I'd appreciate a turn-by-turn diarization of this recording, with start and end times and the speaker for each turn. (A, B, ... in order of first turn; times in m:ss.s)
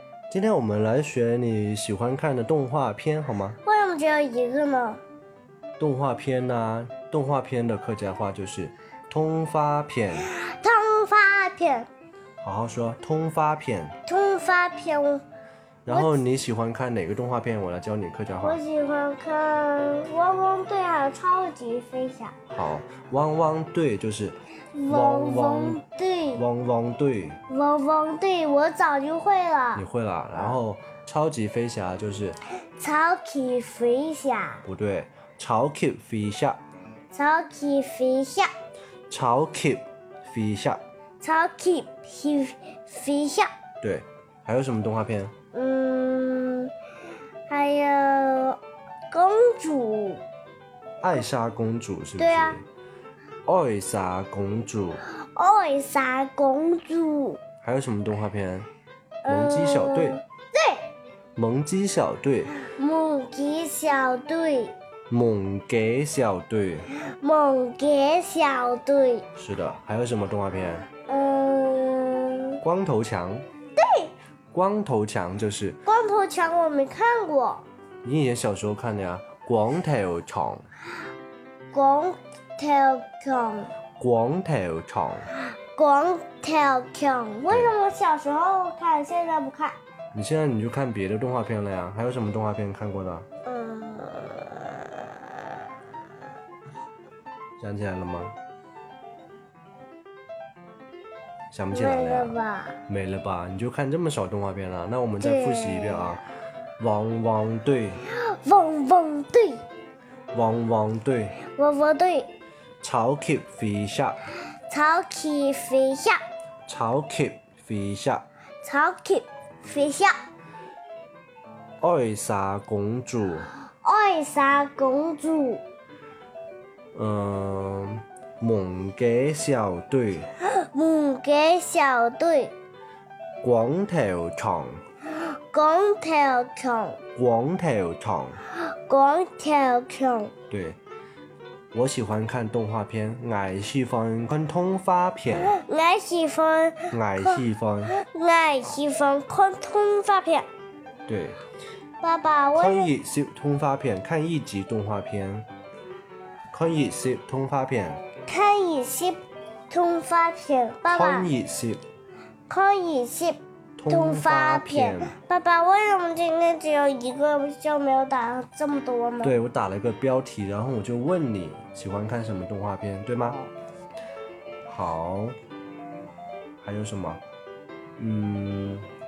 0:00.3-0:03.6 A
0:03.6-0:05.0 B
0:05.8-0:10.3 A
0:10.2-0:11.9 B
0:12.4-0:14.0 A
0:14.0-0:15.2 B
0:15.8-0:18.6 A
0:15.9-0:16.2 B
0:18.4-0:22.3 B
0:22.5-0:24.4 A
0:24.7-0:26.4 B
0:24.9-0:25.8 A
0:26.3-0:27.4 A
0:27.5-0:30.6 B
0:29.7-0:32.4 A
0:32.8-0:34.6 B
0:34.6-0:36.6 A
0:37.1-0:38.5 B
0:39.1-0:40.8 A
0:41.2-0:43.5 B
0:43.8-0:45.3 A
0:45.5-0:46.7 B
0:47.5-0:48.6 B
0:49.1-0:50.2 B
0:51.0-0:52.6 A
0:52.2-0:52.6 B
0:53.4-0:55.0 A
0:55.2-0:57.4 B
0:57.6-0:58.7 A
0:59.2-1:00.8 B
0:59.3-1:00.2 A
1:01.4-1:02.6 A
1:02.6-1:04.7 B
1:05.1-1:06.9 A
1:07.1-1:09.2 B
1:09.3-1:10.9 A
1:11.1-1:12.6 B
1:12.6-1:13.4 A
1:13.8-1:14.1 B
1:14.5-1:15.8 A
1:15.8-1:17.6 B
1:18.0-1:20.6 A
1:21.7-1:23.7 B
1:24.0-1:25.3 A
1:25.7-1:29.8 B
1:30.1-1:33.3 A
1:33.4-1:35.7 B
1:37.6-1:38.3 A
1:41.5-1:46.2 A
1:41.7-1:42.8 B
1:45.2-1:46.2 B
1:46.8-1:48.0 A
1:48.0-1:49.6 B
1:50.3-1:51.4 A
1:51.4-1:52.3 B
1:52.8-1:54.3 A
1:54.7-1:56.2 B
1:56.7-1:58.2 A
1:58.6-2:00.1 B
2:01.8-2:03.5 A
2:03.8-2:05.6 B
2:06.9-2:10.3 A
2:10.4-2:12.5 B
2:13.4-2:14.8 A
2:15.2-2:17.0 B
2:17.1-2:18.4 A
2:18.5-2:20.3 B
2:20.5-2:20.8 A
2:21.7-2:25.5 A
2:25.4-2:30.4 B
2:26.9-2:27.9 A
2:31.1-2:31.4 A
2:32.0-2:32.9 B
2:32.5-2:35.5 A
2:36.5-2:38.0 A
2:38.3-2:41.3 B
2:40.9-2:41.8 A
2:42.5-2:49.4 B
2:43.8-2:45.2 A
2:49.2-2:53.4 A
2:54.7-2:55.3 A
2:56.6-2:57.2 A
2:58.0-2:58.9 A